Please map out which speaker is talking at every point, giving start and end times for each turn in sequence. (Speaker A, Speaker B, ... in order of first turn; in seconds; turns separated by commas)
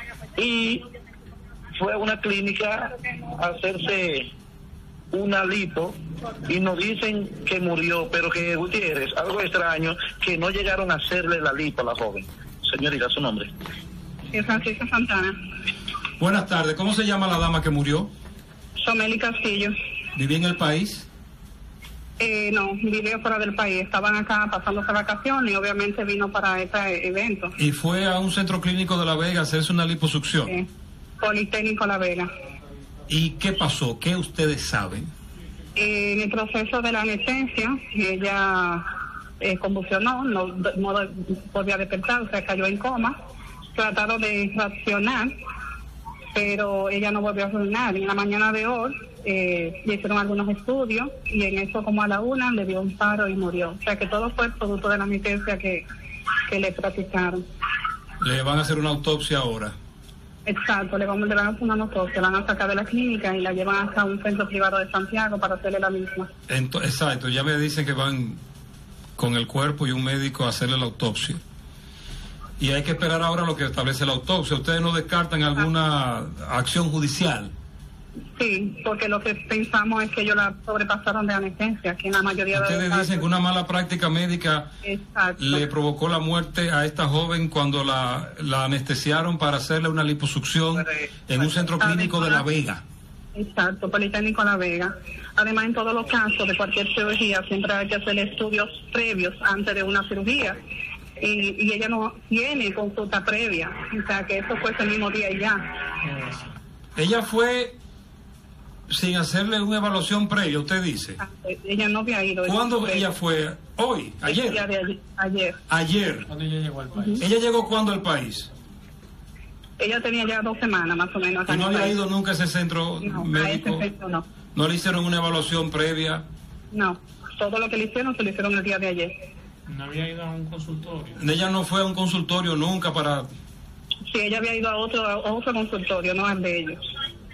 Speaker A: 0.3-0.8, Speaker A: 1.8-4.3, Speaker A: 5.1-13.5, Speaker B: 14.3-15.3, Speaker C: 16.2-18.1, Speaker B: 18.8-19.7, Speaker C: 20.1-21.1, Speaker B: 22.2-27.6, Speaker C: 27.6-30.6, Speaker B: 31.2-32.3, Speaker C: 33.1-35.1, Speaker B: 35.8-38.9, Speaker B: 39.4-43.2, Speaker B: 43.7-45.3, Speaker B: 46.3-55.8, Speaker B: 56.5-57.4, Speaker C: 58.2-59.7, Speaker B: 60.5-66.3, Speaker C: 66.5-68.4, Speaker C: 69.2-71.4, Speaker C: 72.6-77.5, Speaker B: 78.4-83.2, Speaker C: 82.5-84.7, Speaker B: 84.8-85.6, Speaker C: 85.4-92.8, Speaker B: 91.6-92.4, Speaker B: 93.3-100.5, Speaker B: 101.2-105.7, Speaker D: 106.0-106.5, Speaker C: 107.0-107.7, Speaker C: 108.9-111.2, Speaker B: 111.2-113.0, Speaker C: 112.4-114.6, Speaker B: 114.2-115.6, Speaker C: 115.7-116.3, Speaker D: 116.3-117.2, Speaker B: 116.9-117.2, Speaker C: 117.2-118.5, Speaker B: 119.8-122.0, Speaker C: 121.5-123.9, Speaker B: 123.0-124.2, Speaker C: 124.5-126.2, Speaker B: 126.7-129.1, Speaker D: 129.7-131.2, Speaker C: 131.2-133.3, Speaker B: 134.1-136.8